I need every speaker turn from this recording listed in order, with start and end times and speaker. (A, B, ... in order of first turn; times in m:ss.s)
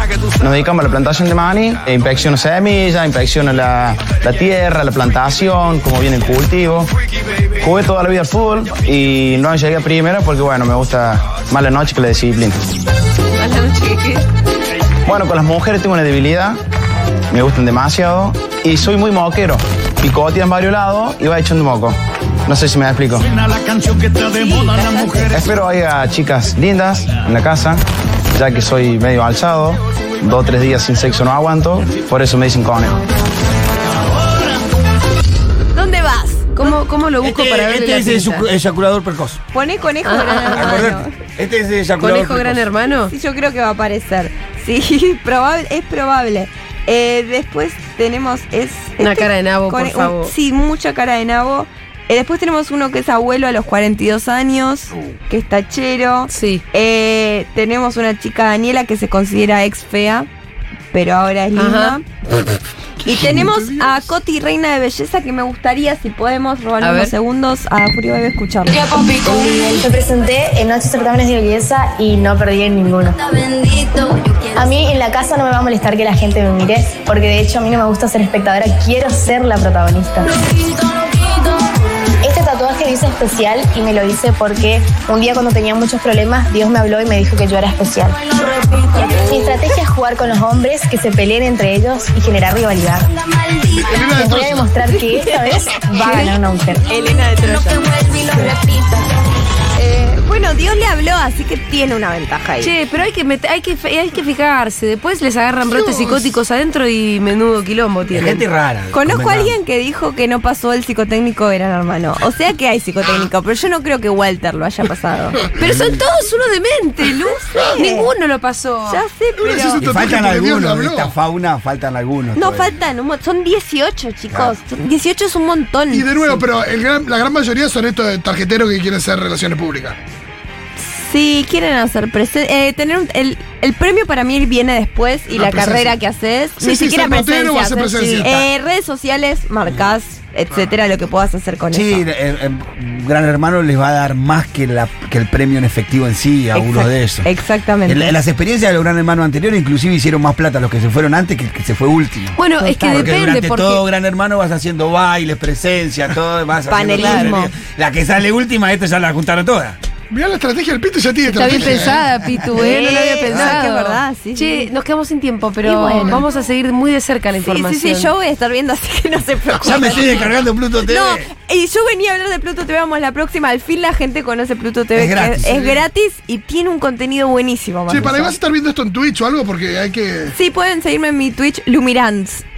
0:00.4-0:06.9 A
0:07.6-0:12.6 A
0:13.4-0:14.2 B
0:15.1-0:16.6 A
0:17.3-0:23.3 A
0:24.4-0:33.0 A
0:35.8-0:36.8 C
0:36.6-0:38.5 B
0:37.2-0:39.4 D
0:39.5-0:41.1 C
0:40.0-0:40.9 B
0:40.5-0:42.8 D
0:42.0-0:43.1 B
0:43.1-1:00.3 C
0:49.0-0:50.3 B
0:56.3-0:56.6 B
1:00.9-1:02.0 C
1:01.6-1:02.0 B
1:03.0-1:08.8 C
1:06.8-1:07.1 B
1:09.1-1:13.2 E
1:14.5-1:20.3 E
1:22.2-1:28.2 E
1:28.8-1:33.1 E
1:33.8-1:34.8 F
1:34.2-1:36.8 E
1:34.9-1:38.2 C
1:36.0-1:36.4 B
1:37.4-1:37.8 B
1:39.8-1:42.7 C
1:42.6-1:48.5 B
1:45.7-1:46.2 F
1:48.1-1:49.6 D
1:48.9-1:55.4 C
1:55.6-1:59.0 B
1:55.6-1:56.0 D
1:57.3-1:58.1 C
1:57.6-1:57.8 F
1:58.8-1:59.8 C
1:59.4-2:01.2 F
1:59.8-2:02.8 D
2:02.4-2:06.4 C
2:04.3-2:04.6 D
2:05.9-2:10.0 F
2:10.8-2:22.1 C
2:15.3-2:16.0 F
2:16.6-2:18.5 F
2:19.7-2:19.9 D
2:21.7-2:27.3 D
2:26.5-2:28.2 C
2:27.9-2:32.4 D
2:32.4-2:33.9 B
2:32.6-2:33.2 C
2:33.0-2:39.8 D
2:36.7-2:37.5 C
2:37.0-2:37.3 B
2:40.1-2:42.1 F
2:41.2-2:48.1 B
2:42.1-2:42.5 D
2:42.5-2:44.7 C
2:43.2-2:43.6 D
2:45.6-2:46.2 C
2:46.0-2:46.3 F
2:47.4-2:50.3 C
2:49.6-2:51.3 D
2:50.9-2:58.4 C
2:55.0-2:55.8 D
2:57.9-3:00.4 F
3:00.3-3:02.4 C